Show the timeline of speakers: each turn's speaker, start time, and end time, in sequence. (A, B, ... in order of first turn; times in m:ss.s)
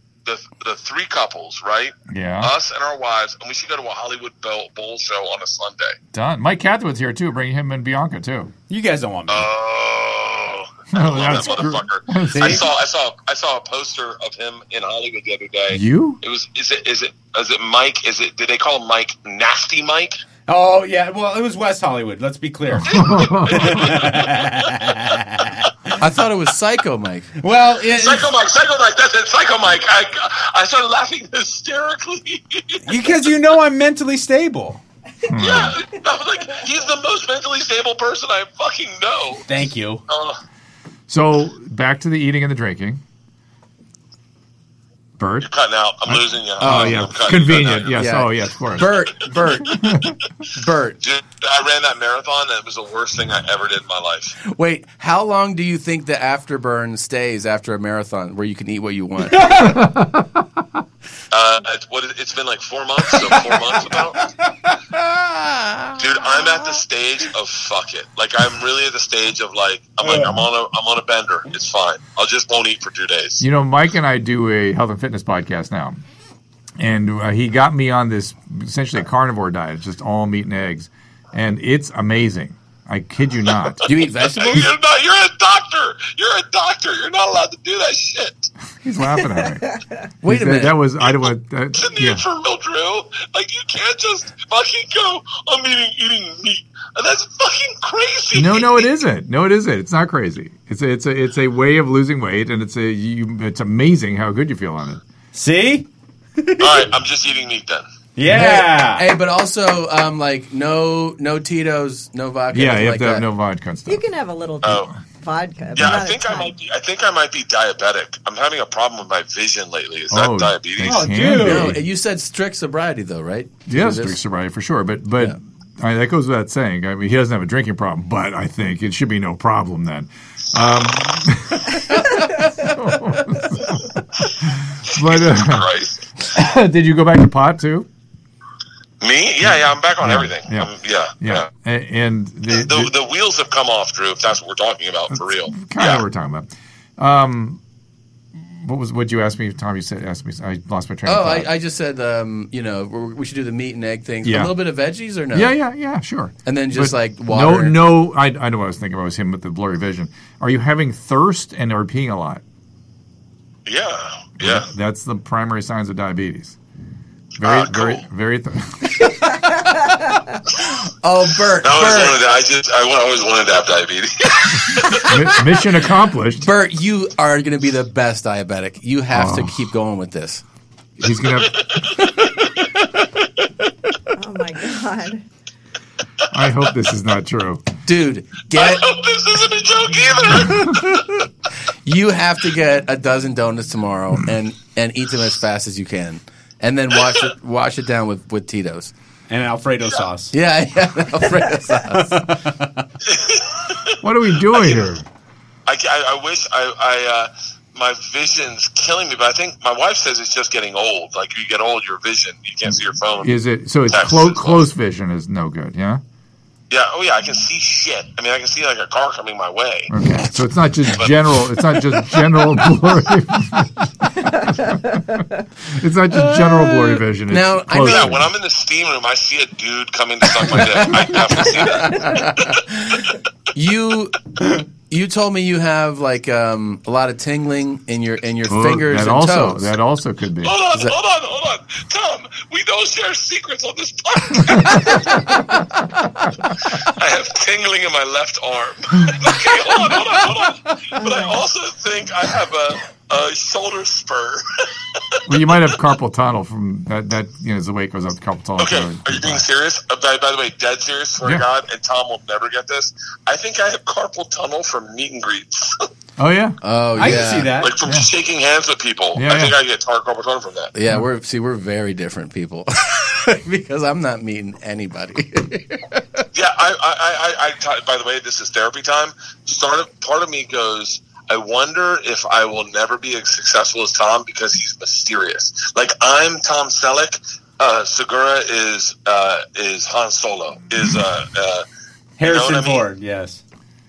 0:00.2-0:06.0 A
0:02.1-0:02.5 B
0:06.1-0:08.5 B
0:08.7-0:09.5 C
0:09.3-0:20.2 A
0:10.9-0:12.6 B
0:12.3-0:12.6 C
0:15.7-0:16.2 B
0:20.5-0:25.9 C
0:22.7-0:23.9 B
0:22.9-0:24.9 A
0:26.0-0:27.3 D
0:27.4-0:28.3 C
0:27.9-0:33.0 A
0:32.8-0:34.8 C
0:35.3-0:35.8 B
0:35.4-0:39.4 A
0:39.5-0:40.0 C
0:40.1-0:40.4 A
0:41.1-0:43.0 B
0:45.2-0:45.5 B
0:45.4-0:48.1 A
0:46.0-0:49.0 B
0:46.6-0:47.1 D
0:47.9-0:50.0 D
0:49.7-0:49.9 A
0:49.7-0:50.1 B
0:50.5-0:51.0 D
0:51.0-0:54.4 A
0:54.4-0:59.7 D
0:59.6-1:00.2 B
1:01.3-1:04.2 A
1:03.2-1:03.9 D
1:05.0-1:06.3 D
1:06.0-1:13.4 A
1:13.4-1:16.0 B
1:16.8-1:23.8 B
1:23.8-1:24.7 D
1:24.3-1:28.5 A
1:28.8-1:32.2 B
1:30.2-1:30.9 D
1:31.1-1:38.9 A
1:38.3-1:45.0 B
1:45.3-1:45.9 C
1:46.4-1:46.8 C
1:46.6-1:47.8 A
1:48.2-1:49.0 C
1:48.3-1:53.3 D
1:52.5-1:54.0 B
1:53.9-1:56.5 E
1:54.6-1:54.9 A
1:55.7-2:01.1 A
2:00.1-2:01.8 B
2:00.8-2:01.8 C
2:01.2-2:04.2 D
2:03.7-2:15.7 B
2:14.9-2:16.0 A
2:16.3-2:17.9 B
2:19.0-2:21.5 A
2:19.5-2:22.9 B
2:22.5-2:26.0 A
2:25.1-2:27.6 B
2:28.4-2:31.5 B
2:31.0-2:35.6 D
2:34.2-2:34.5 B
2:35.3-2:42.4 B
2:36.4-2:37.8 D
2:43.6-2:44.7 A
2:44.4-2:46.6 B
2:47.4-2:48.0 A
2:47.4-2:49.4 B
2:51.0-2:52.2 D
2:51.6-2:55.1 A
2:54.9-2:56.5 B
2:56.4-3:00.4 D
2:59.1-2:59.5 B
3:01.0-3:01.7 B
3:01.6-3:02.0 A
3:04.1-3:05.2 E
3:06.3-3:07.6 B
3:07.8-3:08.9 D
3:08.5-3:11.0 A
3:11.8-3:18.9 D
3:19.3-3:20.3 C
3:20.3-3:22.3 D
3:21.9-3:22.9 C
3:23.0-3:24.9 A
3:24.0-3:25.0 B
3:25.7-3:34.7 A
3:33.2-3:36.0 B
3:36.7-3:39.9 A
3:39.9-3:45.0 B
3:41.0-3:41.3 A
3:45.6-3:48.3 B
3:46.1-3:48.2 D
3:47.8-3:52.6 A
3:51.1-3:54.3 D
3:54.9-3:59.7 D
3:58.5-4:00.6 B
4:00.4-4:05.2 A
4:06.8-4:15.4 A
4:10.9-4:11.4 E
4:15.3-4:19.4 B
4:18.6-4:25.9 A
4:26.2-4:27.2 B
4:26.6-4:27.6 D
4:26.9-4:27.7 C
4:27.5-4:30.7 A
4:27.9-4:28.1 B
4:29.2-4:29.6 B
4:30.7-4:36.2 D
4:36.3-4:51.6 A
4:52.2-4:53.4 C
4:52.2-4:52.9 A